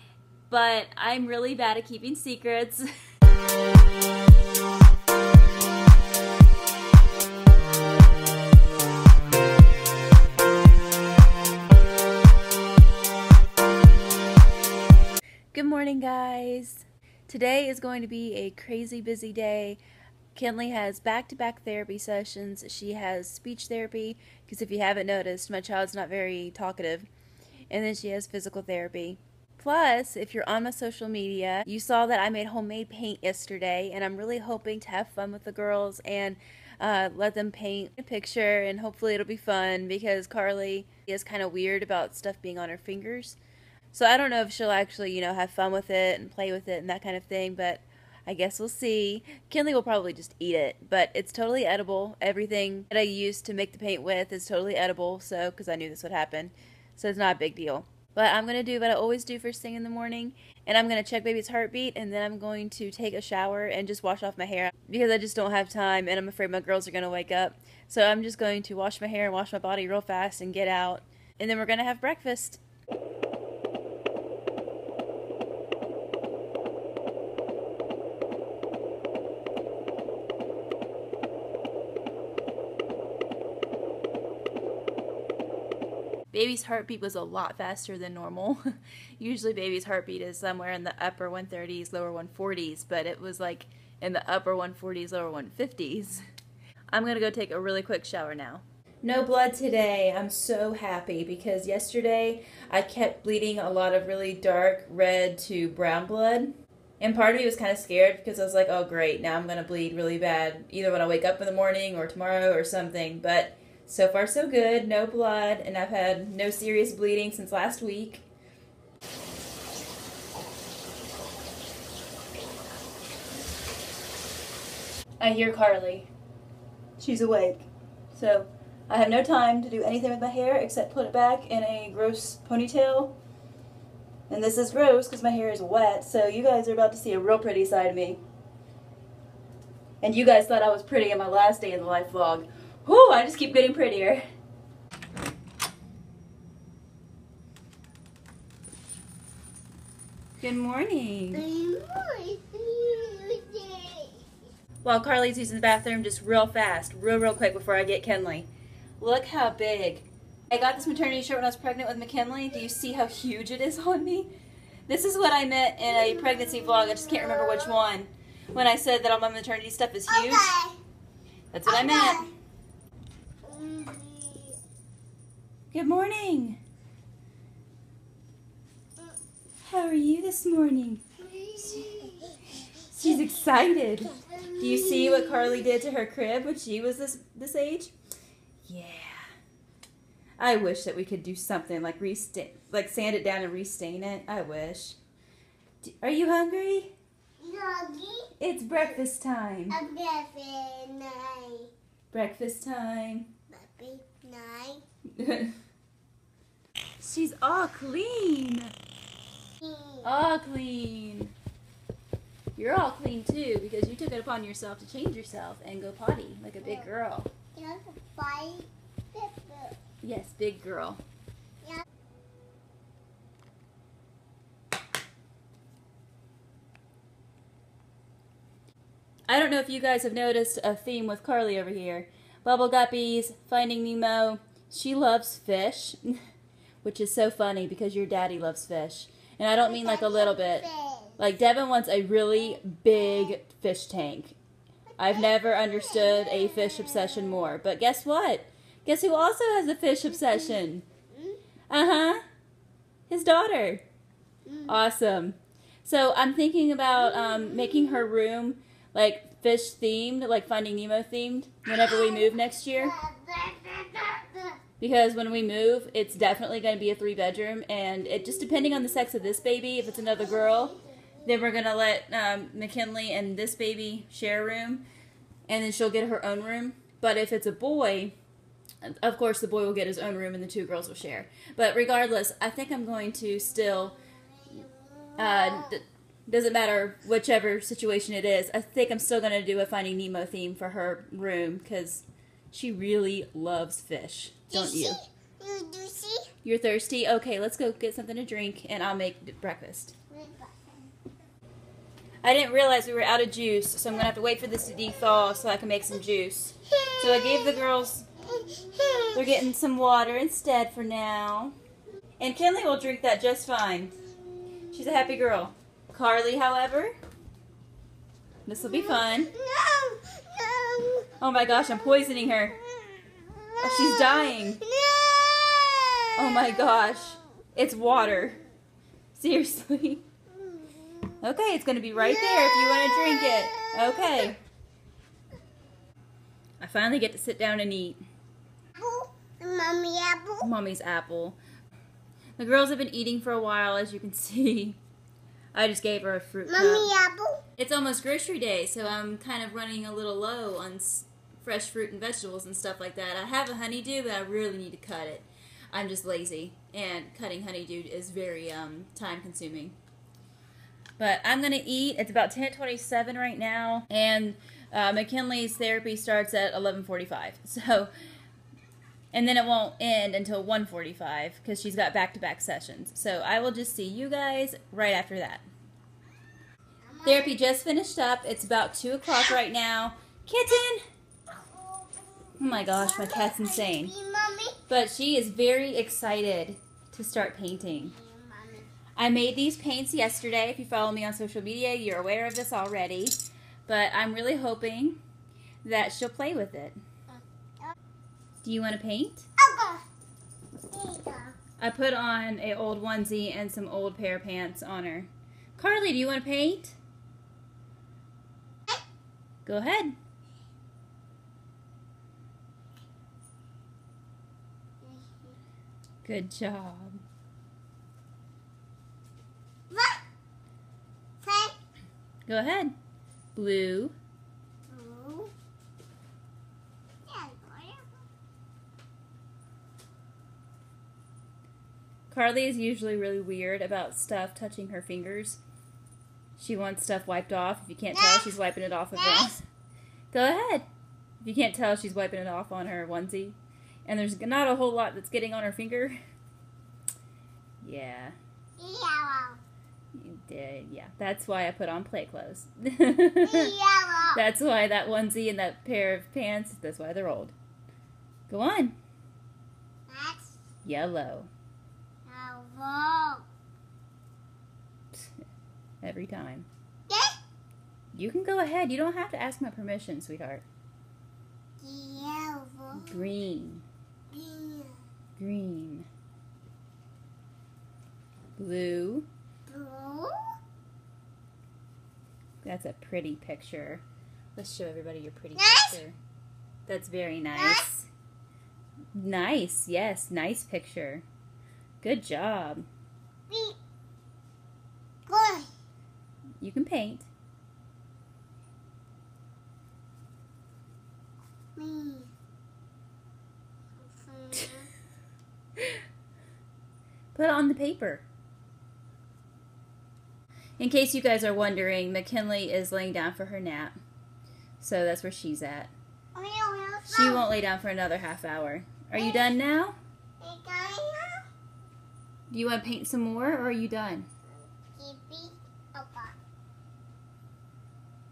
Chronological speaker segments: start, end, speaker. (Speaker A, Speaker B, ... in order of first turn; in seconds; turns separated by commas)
Speaker A: 0.5-2.8, Speaker A: 15.5-19.8, Speaker A: 20.3-27.1, Speaker A: 27.7-43.4, Speaker A: 43.9-72.6, Speaker A: 86.3-88.6, Speaker A: 89.2-96.2, Speaker A: 96.9-118.2, Speaker A: 125.2-126.1, Speaker A: 127.0-133.1, Speaker A: 134.3-138.2, Speaker A: 140.0-144.2, Speaker A: 150.4-151.4, Speaker B: 151.3-154.2, Speaker A: 154.8-158.5, Speaker A: 159.0-164.3, Speaker A: 164.9-170.5, Speaker B: 165.8-167.8, Speaker B: 170.1-170.8, Speaker A: 171.5-172.3, Speaker B: 171.7-172.3, Speaker B: 173.4-174.6, Speaker A: 175.7-176.6, Speaker A: 179.6-181.0, Speaker B: 181.2-183.2, Speaker A: 181.6-187.9, Speaker B: 184.2-185.7, Speaker A: 188.6-189.2, Speaker A: 190.4-195.0, Speaker A: 195.8-196.9, Speaker B: 197.4-198.3, Speaker A: 198.4-199.8, Speaker B: 199.7-201.7, Speaker A: 202.1-203.3, Speaker B: 203.5-204.8, Speaker A: 205.2-205.5, Speaker A: 207.0-208.7, Speaker B: 209.6-210.1, Speaker A: 210.0-211.3, Speaker A: 212.6-217.3, Speaker B: 216.6-216.9, Speaker B: 217.5-219.8, Speaker A: 220.0-221.0, Speaker A: 229.3-236.2, Speaker A: 236.8-240.7, Speaker B: 239.5-241.2, Speaker A: 241.2-244.3, Speaker A: 245.0-250.8, Speaker B: 245.0-247.5, Speaker B: 251.1-251.4, Speaker A: 251.7-252.2, Speaker A: 253.1-253.8, Speaker B: 254.4-254.8, Speaker A: 254.7-262.9, Speaker B: 257.3-257.9, Speaker B: 261.7-264.6, Speaker A: 264.8-274.8, Speaker B: 270.1-271.2, Speaker A: 275.5-278.1, Speaker A: 278.8-284.0, Speaker B: 284.5-285.8, Speaker A: 285.2-295.0, Speaker B: 294.5-296.3, Speaker A: 296.4-299.9, Speaker B: 300.1-300.7, Speaker A: 302.2-308.1, Speaker B: 306.7-307.6, Speaker B: 308.2-309.3, Speaker A: 309.1-311.5, Speaker A: 312.2-314.0, Speaker A: 314.7-316.9, Speaker A: 318.5-319.3, Speaker B: 318.6-321.1, Speaker A: 321.2-322.6, Speaker B: 322.7-327.0, Speaker A: 323.6-324.6, Speaker A: 326.1-328.4, Speaker A: 329.1-330.0, Speaker B: 330.3-331.2, Speaker A: 331.2-334.4, Speaker B: 331.9-334.3, Speaker A: 336.6-338.0, Speaker B: 338.8-340.5, Speaker A: 340.4-341.4, Speaker A: 342.4-344.8, Speaker A: 345.5-346.9, Speaker B: 346.5-347.4, Speaker A: 347.6-359.8, Speaker A: 361.0-367.9, Speaker A: 369.1-375.4, Speaker B: 376.8-377.4, Speaker A: 377.0-380.8, Speaker B: 381.5-384.6, Speaker A: 382.4-383.9, Speaker A: 384.7-387.9, Speaker B: 387.7-388.7, Speaker A: 388.9-395.0, Speaker A: 395.6-396.8, Speaker B: 397.1-397.7, Speaker A: 398.4-399.3, Speaker B: 399.4-399.8, Speaker B: 400.7-401.4, Speaker A: 401.6-406.8, Speaker A: 409.4-409.9, Speaker B: 414.8-415.4, Speaker A: 416.0-417.0, Speaker B: 419.7-420.0, Speaker B: 421.2-421.6, Speaker A: 422.3-422.7, Speaker A: 423.3-423.9, Speaker B: 424.7-425.3, Speaker B: 427.1-427.9, Speaker A: 432.1-435.4, Speaker A: 436.4-439.4, Speaker B: 437.9-438.4, Speaker B: 438.9-439.3, Speaker A: 440.1-440.7, Speaker A: 441.2-445.9, Speaker A: 447.6-448.1, Speaker B: 448.6-449.4, Speaker A: 449.9-453.5, Speaker B: 453.2-454.2, Speaker A: 454.1-457.3, Speaker A: 458.3-458.8, Speaker B: 459.9-460.4, Speaker A: 460.6-461.3, Speaker B: 462.1-463.2, Speaker A: 465.8-466.5, Speaker B: 466.9-467.2, Speaker A: 467.9-470.4, Speaker B: 471.6-473.1, Speaker A: 472.7-473.6, Speaker B: 474.1-474.8, Speaker A: 475.2-475.9, Speaker A: 478.4-479.1, Speaker B: 479.5-480.3, Speaker A: 482.4-483.8, Speaker A: 484.4-486.0, Speaker B: 485.4-485.8, Speaker A: 486.7-487.9, Speaker B: 487.3-487.6, Speaker A: 488.9-491.0, Speaker A: 491.8-492.6, Speaker B: 493.3-493.6, Speaker B: 495.1-495.5, Speaker A: 496.4-497.1, Speaker B: 501.6-502.1, Speaker B: 503.9-504.7, Speaker A: 507.1-508.0, Speaker A: 510.6-513.8, Speaker A: 514.6-515.7, Speaker B: 516.1-517.3, Speaker A: 516.9-519.8, Speaker B: 518.9-519.3, Speaker B: 520.2-521.2, Speaker A: 522.3-524.0, Speaker B: 524.4-526.1